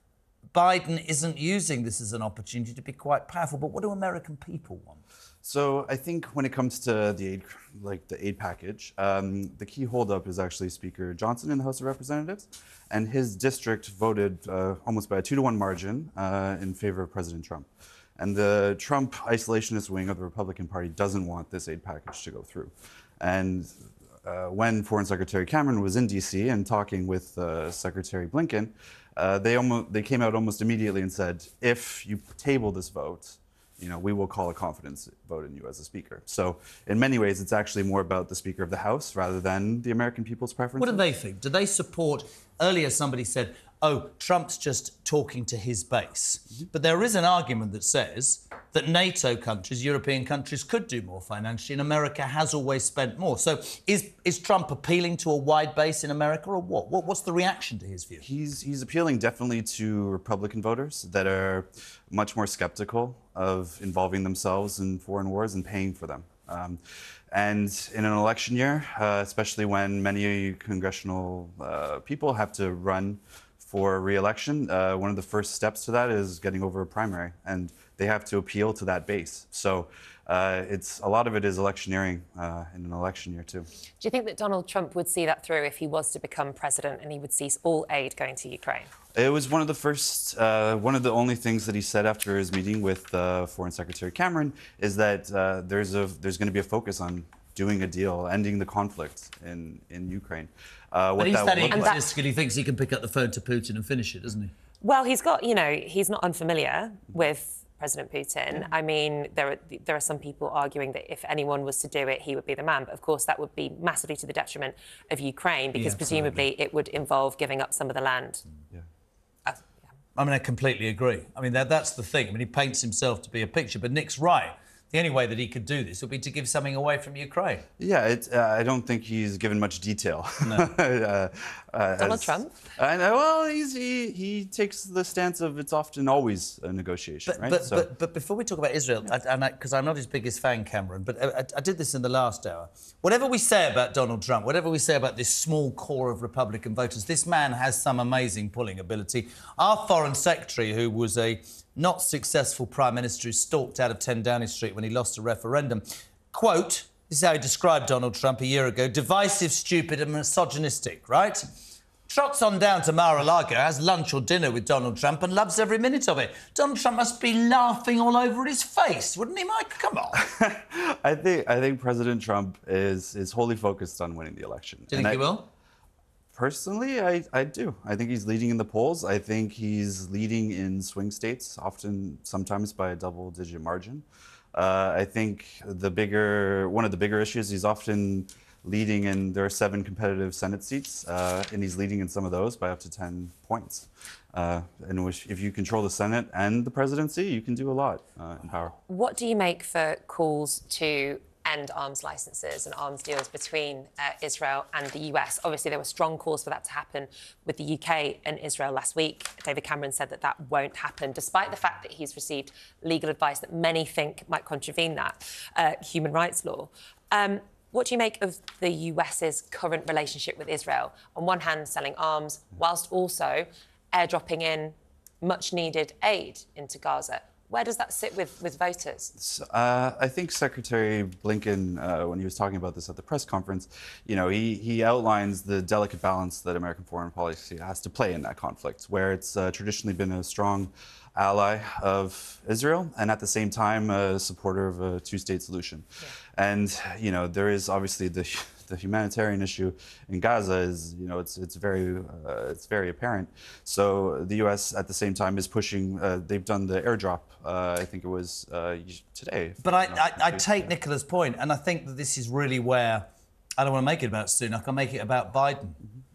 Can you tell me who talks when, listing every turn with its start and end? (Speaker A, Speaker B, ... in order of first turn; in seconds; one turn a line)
Speaker A: 0.5-5.0
Speaker B: 5.4-17.7
Speaker B: 18.2-23.7
Speaker B: 24.2-41.0
Speaker A: 40.8-58.2
Speaker B: 58.2-66.8
Speaker B: 67.3-83.7
Speaker C: 84.0-88.9
Speaker B: 89.1-102.0
Speaker A: 101.2-104.5
Speaker C: 101.7-102.1
Speaker C: 104.8-118.4
Speaker A: 115.7-116.4
Speaker A: 120.2-127.7
Speaker B: 127.8-137.9
Speaker A: 130.4-130.7
Speaker C: 132.0-132.6
Speaker A: 137.3-161.4
Speaker A: 162.1-170.2
Speaker B: 170.1-175.2
Speaker A: 174.9-175.4
Speaker B: 176.3-198.7
Speaker C: 198.9-229.1
Speaker B: 229.2-245.8
Speaker B: 246.3-260.7
Speaker A: 259.6-265.8